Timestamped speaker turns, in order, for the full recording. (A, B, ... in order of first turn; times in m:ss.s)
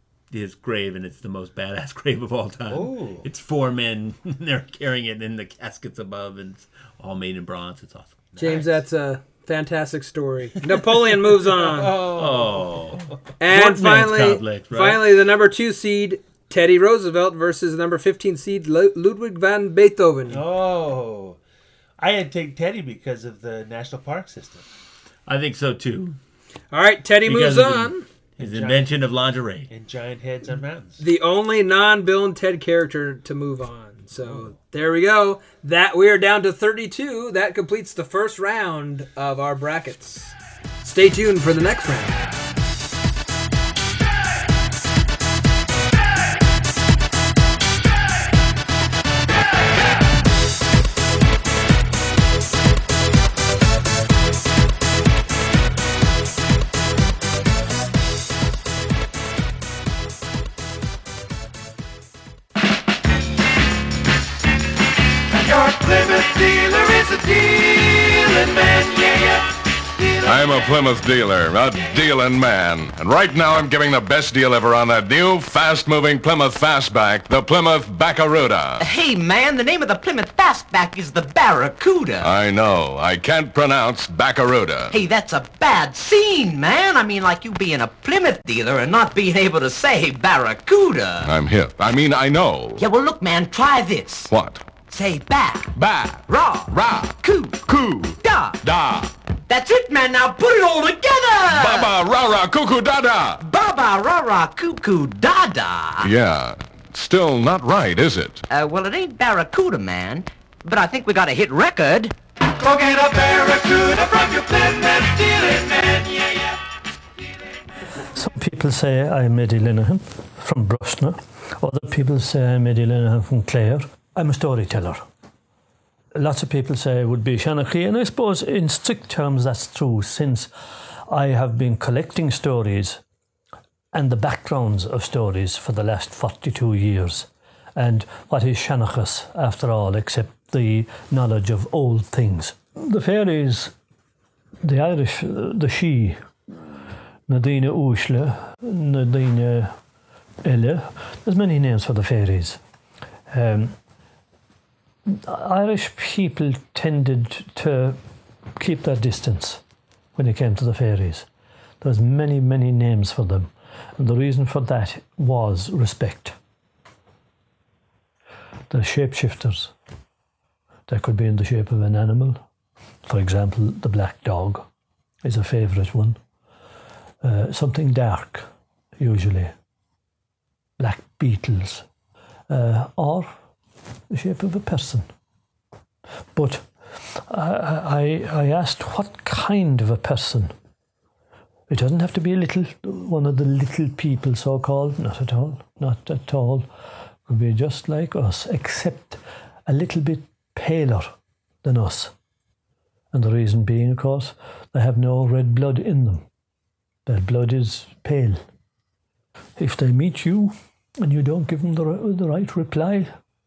0:00.3-0:08.3 A
0:02.7-0:03.3 B
0:08.4-0:08.8 B
0:08.4-0:11.9 C
0:11.5-0:13.1 B
0:12.2-0:15.1 A
0:13.4-0:20.4 C
0:20.3-0:21.4 B
0:22.0-0:24.7 B
0:25.3-0:26.2 A
0:26.7-0:28.0 C
0:27.2-0:29.7 A
0:28.4-0:28.9 B
0:29.7-0:31.0 B
0:31.0-0:42.2 C
0:34.2-0:34.5 B
1:05.4-1:09.4 D
1:10.2-1:18.8 E
1:18.8-1:22.3 F
1:22.2-1:24.9 E
1:24.9-1:31.3 F
1:31.2-1:32.8 E
1:32.8-1:34.3 F
1:34.3-1:34.8 E
1:34.8-1:35.7 F
1:35.8-1:36.2 E
1:36.3-1:38.6 F
1:38.8-1:39.0 E
1:39.5-1:41.9 F
1:41.5-1:43.4 E
1:43.4-1:46.1 F
1:46.0-1:48.4 E
1:48.5-1:52.1 F
1:52.6-1:56.5 D
1:58.1-2:05.0 G
2:06.2-2:10.5 G
2:11.1-2:13.0 G
2:13.9-2:23.7 G
2:24.6-2:26.2 G
2:27.3-2:29.8 G
2:30.5-2:32.6 G
2:33.3-2:33.8 G
2:35.1-2:38.0 G
2:38.6-2:39.6 G
2:40.2-2:41.3 G
2:41.8-2:46.4 G
2:48.7-2:49.7 G
2:50.9-2:52.4 G
2:53.1-2:54.6 G
2:55.2-2:56.2 G
2:57.2-2:58.5 G
2:59.0-2:59.5 G
3:00.8-3:01.8 G
3:02.5-3:03.4 G
3:04.1-3:05.1 G
3:06.4-3:10.5 G
3:11.7-3:16.7 G
3:17.3-3:22.1 G
3:23.1-3:26.2 G
3:27.1-3:28.4 G
3:29.6-3:33.1 G